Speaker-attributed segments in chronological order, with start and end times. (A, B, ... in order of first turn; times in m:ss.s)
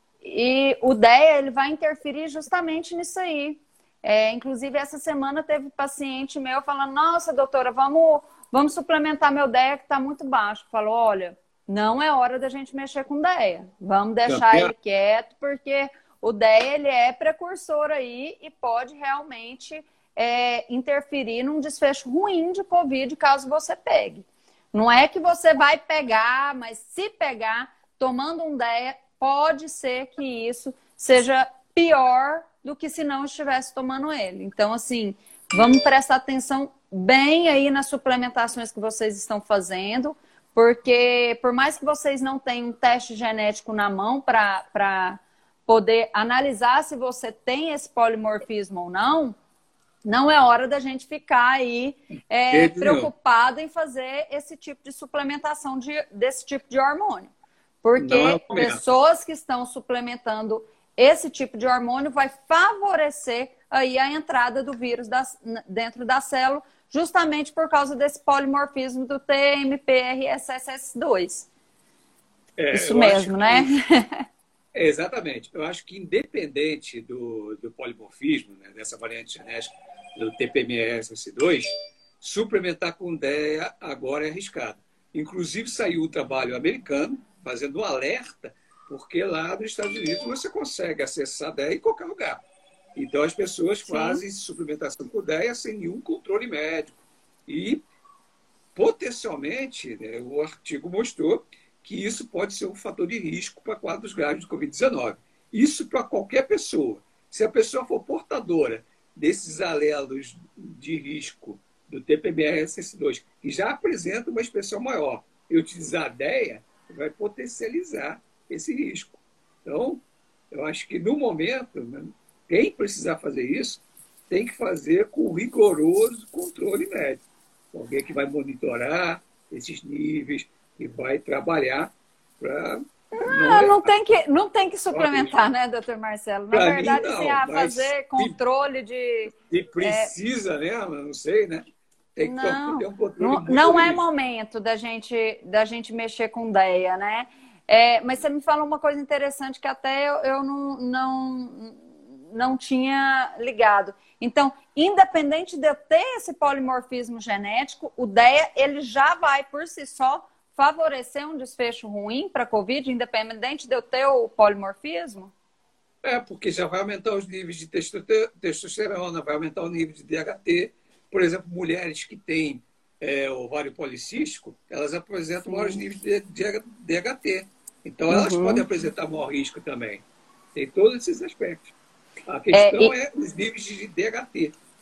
0:00.2-0:49.4 A
0:14.3-0:14.7 B
0:50.0-0:57.3 A
0:52.5-0:53.1 B
0:57.8-1:11.5 A
0:58.0-0:58.8 B
1:12.6-1:13.7 B
1:12.7-1:14.2 A
1:14.7-1:21.7 B
1:22.2-1:32.4 B
1:32.9-1:37.8 B
1:33.8-1:34.2 A
1:38.7-2:13.9 B
2:13.1-2:20.1 A
2:14.9-2:15.3 B
2:16.5-2:18.4 B
2:19.5-2:24.0 B
2:22.2-2:45.3 A
2:46.0-3:01.7 B
2:55.5-2:55.8 A
2:58.1-2:58.6 A
3:02.3-3:04.6 B
3:02.5-3:02.9 A